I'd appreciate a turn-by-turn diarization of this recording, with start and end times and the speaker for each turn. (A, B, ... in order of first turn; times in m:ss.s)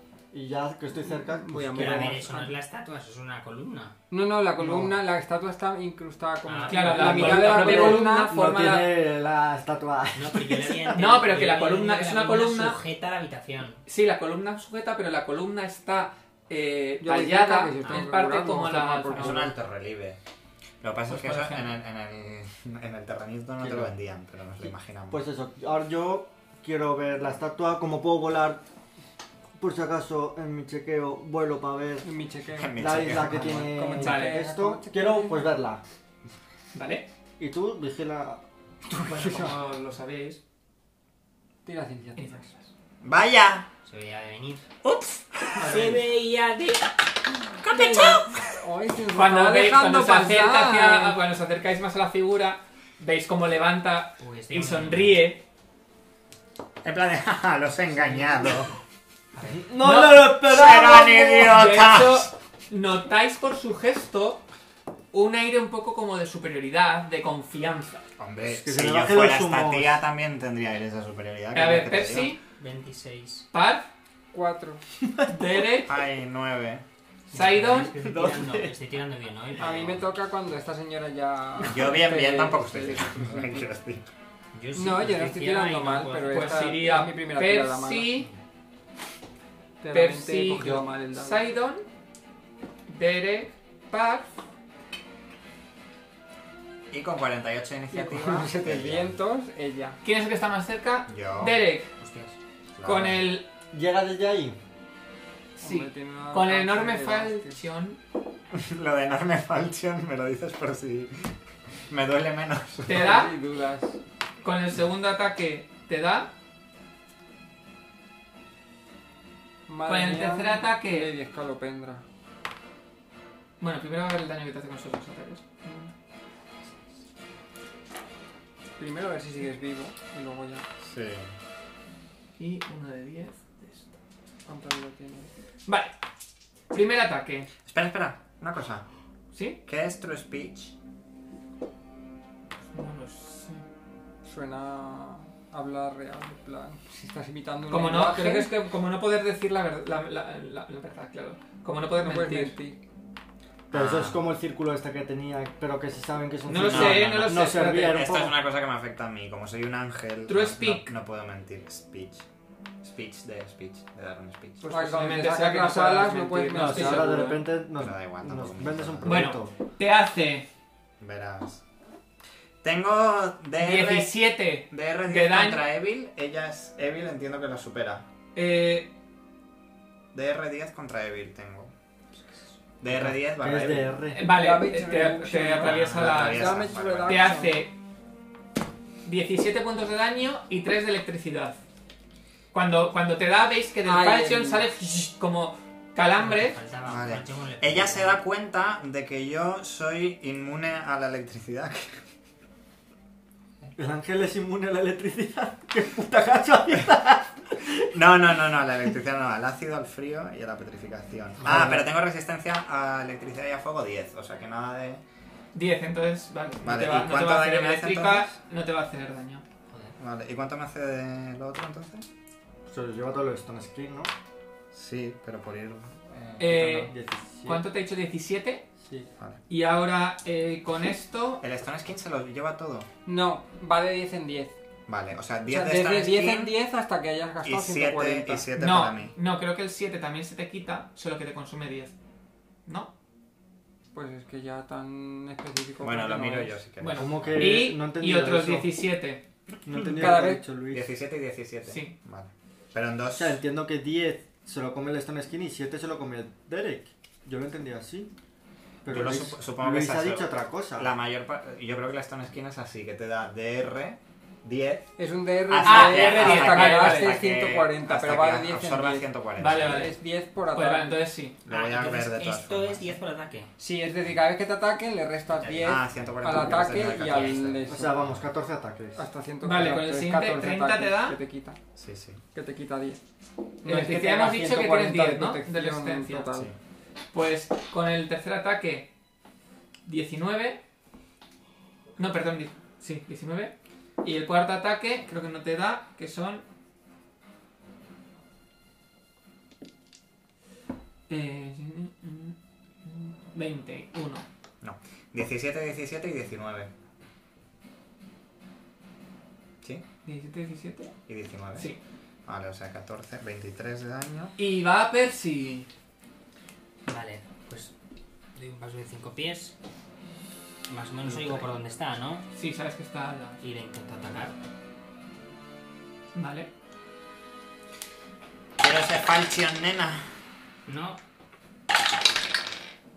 0:00.3-0:02.2 A
0:01.1-0:02.5 B
0:01.7-0:04.0 C
0:04.1-0:08.4 B
0:04.6-0:05.0 A
0:06.4-0:07.4 C
0:06.7-0:08.9 D
0:07.0-0:11.1 A
0:10.2-0:13.8 C
0:10.9-0:12.8 D
0:13.9-0:19.5 D
0:17.0-0:19.6 B
0:19.2-0:20.2 E
0:20.8-0:25.2 E
0:21.1-0:21.8 D
0:23.6-0:23.9 A
0:24.6-0:28.6 A
0:29.6-0:32.1 A
0:32.0-0:35.5 B
0:32.5-0:33.8 E
0:32.8-0:35.8 A
0:33.9-0:34.4 D
0:36.7-0:37.1 D
0:37.4-0:38.4 A
0:38.9-0:39.6 B
0:39.1-0:40.4 D
0:41.6-0:42.5 B
0:42.2-0:42.7 D
0:43.0-0:43.7 E
0:43.8-0:44.7 C
0:44.8-0:46.0 E
0:45.5-0:47.0 C
0:45.7-0:45.9 D
0:47.6-0:48.6 E
0:47.7-0:51.2 B
0:49.1-0:55.4 D
0:54.2-0:55.2 C
0:56.8-0:58.8 E
0:59.4-0:59.6 C
0:59.4-1:01.5 A
0:59.8-1:00.6 D
1:00.4-1:02.3 E
1:01.2-1:04.4 D
1:05.1-1:08.1 D
1:08.2-1:12.4 E
1:08.4-1:10.0 A
1:11.5-1:12.4 D
1:12.5-1:13.5 C
1:13.5-1:13.9 D
1:14.3-1:14.8 B
1:15.3-1:15.9 D
1:15.8-1:16.8 E
1:17.3-1:20.0 C
1:17.3-1:18.6 D
1:18.2-1:18.5 A
1:19.6-1:23.7 B
1:21.6-1:24.1 E
1:24.5-1:26.6 C
1:24.8-1:28.2 B
1:26.3-1:28.3 D
1:29.8-1:31.4 B
1:29.9-1:31.9 D
1:32.9-1:34.4 D
1:36.9-1:39.2 E
1:37.9-1:40.0 B
1:40.0-1:41.9 D
1:41.1-1:41.6 E
1:42.0-1:42.4 C
1:42.8-1:43.2 E
1:42.8-1:43.5 D
1:43.7-1:44.6 A
1:45.6-1:47.6 B
1:45.6-1:48.0 D
1:48.5-1:51.4 E
1:51.9-1:53.2 E
1:52.9-1:53.3 D
1:52.9-1:54.0 B
1:54.4-1:56.3 D
1:59.7-2:02.0 B
1:59.9-2:01.1 D
2:03.6-2:05.9 D
2:08.8-2:10.7 B
2:10.8-2:11.3 E
2:12.4-2:13.9 D
2:14.4-2:15.3 B
2:15.7-2:15.9 D
2:16.7-2:17.5 D
2:17.6-2:18.9 E
2:19.3-2:19.6 D
2:19.6-2:20.7 E
2:22.7-2:23.6 D
2:24.2-2:28.6 B
2:27.7-2:32.6 D
2:32.0-2:32.8 B
2:33.7-2:38.4 A
2:33.8-2:34.1 E
2:36.5-2:38.0 D
2:36.6-2:42.3 E
2:40.3-2:40.9 D
2:42.8-2:44.7 E
2:44.6-2:47.4 B
2:44.7-2:47.4 D
2:46.6-2:49.5 A
2:47.8-2:49.2 E
2:49.0-2:50.5 D
2:51.0-2:51.6 E
2:52.6-2:54.2 E
2:53.6-2:55.6 D
2:54.7-2:58.1 E
2:58.4-2:58.9 D
3:00.1-3:01.7 E
3:02.8-3:04.0 E
3:02.9-3:04.2 A
3:04.1-3:07.7 D
3:04.2-3:07.7 B
3:05.6-3:07.3 E
3:09.0-3:11.6 D
3:12.5-3:16.6 D
3:13.8-3:14.7 B
3:16.2-3:18.2 C
3:16.9-3:22.0 E
3:23.8-3:27.8 A
3:27.9-3:35.0 E
3:31.4-3:31.9 A
3:35.5-3:39.4 D
3:36.6-3:38.3 E
3:39.7-3:40.0 C
3:40.0-3:42.1 E
3:42.7-3:44.1 A
3:44.7-3:46.9 E
3:46.4-3:46.9 D
3:46.6-3:47.6 A
3:47.4-3:48.6 D
3:48.8-3:49.1 A
3:49.5-3:51.4 D
3:51.4-3:52.9 E
3:53.1-3:54.6 B
3:54.9-3:56.6 E
3:55.5-3:58.5 B
3:57.4-3:59.1 E
3:58.6-4:02.0 D
4:02.7-4:02.9 D
4:03.9-4:06.6 B
4:05.8-4:07.6 E
4:06.8-4:09.2 D
4:07.0-4:08.7 A
4:09.6-4:11.0 A
4:09.9-4:10.4 B
4:10.7-4:13.4 E
4:11.6-4:12.0 D
4:13.2-4:18.1 A
4:18.8-4:20.9 A
4:18.9-4:29.9 E
4:25.0-4:31.0 B
4:25.6-4:27.2 D
4:29.4-4:30.0 D
4:30.5-4:31.4 D
4:31.4-4:33.0 E
4:31.5-4:33.5 C
4:33.6-4:38.0 B
4:35.4-4:35.8 C
4:35.6-4:38.2 E
4:37.1-4:37.4 C
4:37.7-4:39.0 A
4:39.0-4:41.6 B
4:39.4-4:41.2 D
4:41.8-4:42.2 E
4:42.3-4:43.0 B
4:43.6-4:46.5 B
4:43.6-4:46.3 D
4:47.1-4:48.9 D
4:49.9-4:50.6 D
4:52.0-4:56.4 D
5:01.1-5:04.2 D
5:04.6-5:06.7 E
5:10.0-5:11.0 D
5:11.1-5:11.7 E
5:12.3-5:14.4 E
5:14.4-5:15.7 D
5:16.9-5:17.7 C
5:18.4-5:19.6 C
5:20.7-5:22.3 C
5:22.3-5:23.4 D
5:23.4-5:24.4 C
5:26.1-5:26.5 D
5:28.6-5:30.1 E
5:30.7-5:31.0 C